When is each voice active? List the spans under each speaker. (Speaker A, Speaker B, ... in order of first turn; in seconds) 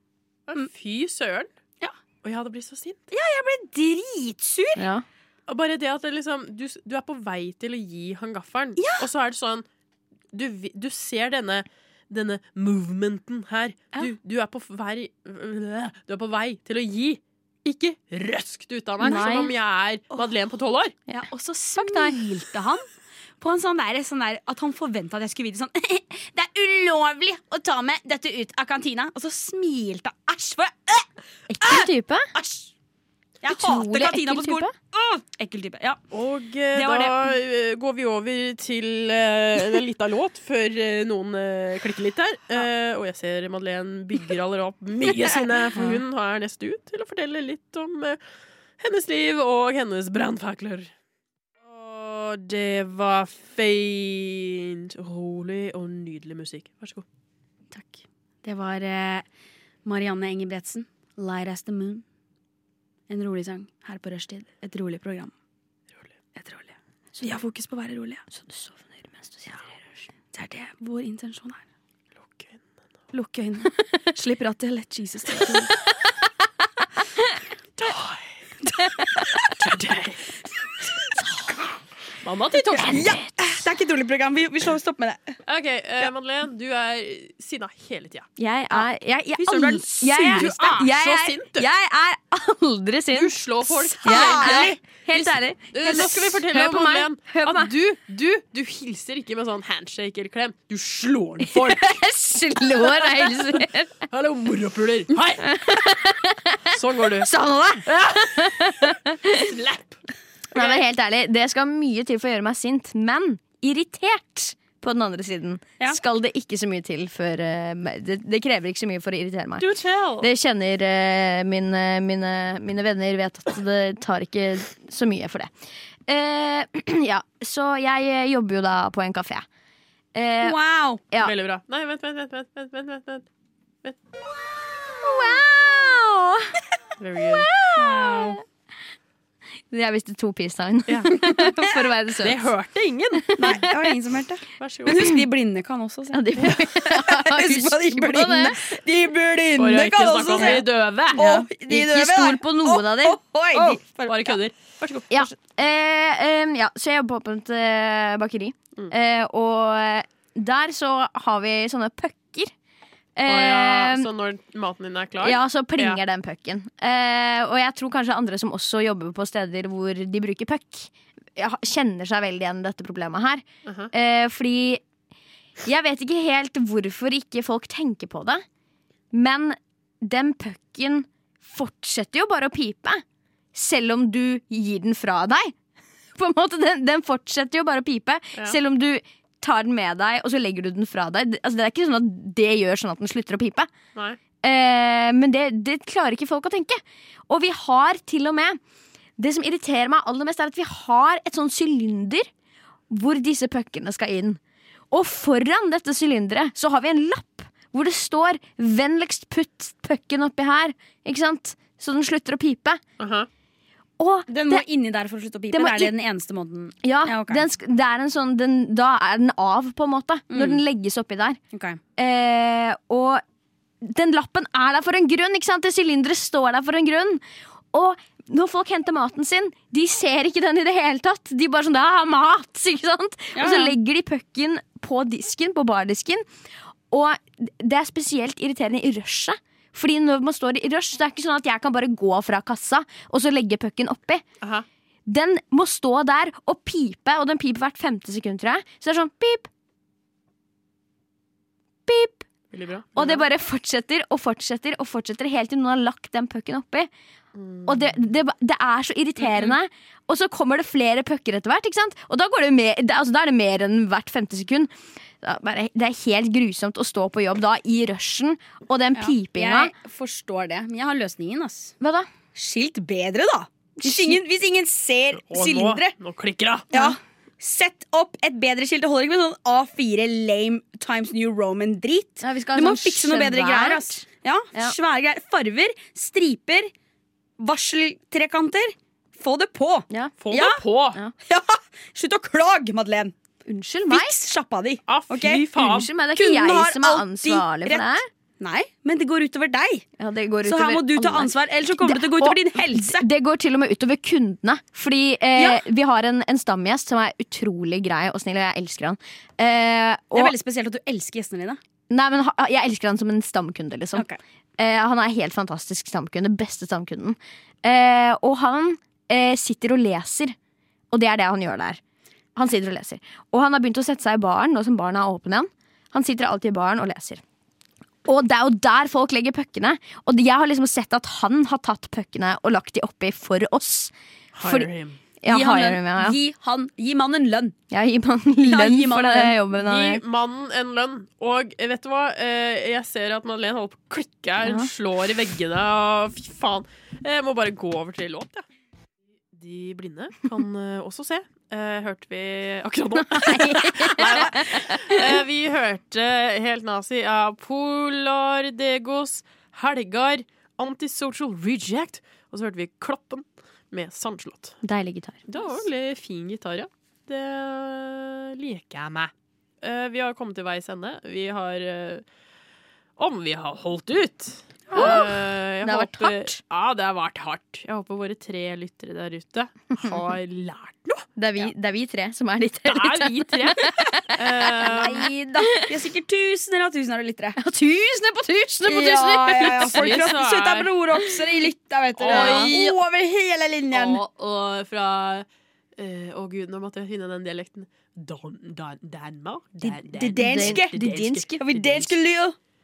Speaker A: 0.5-1.5, 2.2-3.0, 5.5-9.7, 10.3-21.0, 36.1-48.2, 48.8-50.9, 51.6-57.0, 72.3-72.6, 77.8-78.3, 79.5-80.3, 82.2-83.1, 85.5-88.3, 90.2-91.7, 93.1-102.0, 102.8-105.6, 106.7-107.3, 107.9-108.7, 109.3-110.0, 110.5-110.8, 119.6-120.3, 131.2-133.3, 137.0-137.6, 140.9-141.5, 142.2-143.4, 144.6-145.1, 149.6-151.3, 154.1-155.3, 163.3-166.0, 173.7-173.9, 213.0-213.3, 244.4-244.7, 252.5-253.3, 257.4-257.9, 259.2-259.6, 275.3-276.7, 290.2-291.0, 294.9-295.9, 334.4-335.0, 339.5-348.4, 349.3-364.6, 365.3-369.1, 369.6-372.0, 373.0-381.5, 382.7-385.1, 389.4-390.7, 392.0-392.8, 393.7-402.0
Speaker B: 3.1-4.9, 8.8-9.1, 19.0-19.3, 21.1-22.9, 23.4-31.1, 31.6-32.7, 33.4-36.0, 36.7-37.3, 57.7-59.3, 59.9-62.0, 63.1-65.3, 66.4-68.2, 70.3-71.6, 73.1-75.8, 82.7-85.4, 89.4-90.5, 94.0-94.8, 130.4-131.0, 137.7-138.4, 143.4-154.4, 214.3-217.4, 220.3-220.6, 221.5-221.8, 233.3-233.8, 268.9-271.8, 272.3-275.9, 276.7-286.7, 287.4-290.6, 291.2-293.1, 293.9-295.5, 296.1-299.9, 300.4-303.1, 305.4-305.6, 310.1-311.6, 313.9-314.2, 335.3-337.6, 338.4-339.4, 374.7-375.0, 384.6-387.4, 388.7-394.0, 399.6-400.8, 401.4-402.4
Speaker C: 4.8-5.0, 19.0-19.5, 21.8-22.2, 31.5-32.3, 33.5-34.7, 68.3-69.7, 78.8-79.3, 82.8-83.3, 88.4-97.7, 101.4-104.0, 105.4-109.5, 110.5-125.5, 126.1-129.5, 130.1-130.6, 134.8-136.6, 137.4-138.4, 139.7-142.4, 143.2-143.7, 145.0-145.2, 146.1-148.8, 150.3-150.6, 151.2-153.8, 155.1-162.5, 163.2-164.1, 165.2-174.8, 175.7-178.4, 179.1-183.0, 183.5-185.6, 186.2-193.7, 194.4-198.6, 199.2-202.3, 202.9-204.4, 204.9-212.8, 214.0-214.6, 215.5-215.9, 216.8-221.4, 222.0-223.2, 223.8-236.2, 236.9-244.2, 245.1-249.5, 251.9-252.3, 253.0-256.9, 257.7-264.7, 265.2-269.7, 271.8-272.1, 273.8-274.2, 276.7-277.0, 282.2-284.8, 289.9-290.1, 293.4-294.1, 295.6-298.1, 300.0-310.3, 311.9-314.1, 314.6-320.4, 320.9-321.8, 322.4-327.2, 328.1-333.9, 334.4-334.7, 335.2-336.2, 337.7-340.0, 344.4-344.7, 353.0-355.1, 364.6-365.3, 374.7-376.4, 381.2-385.8, 387.4-390.1, 392.1-392.6, 400.1-401.4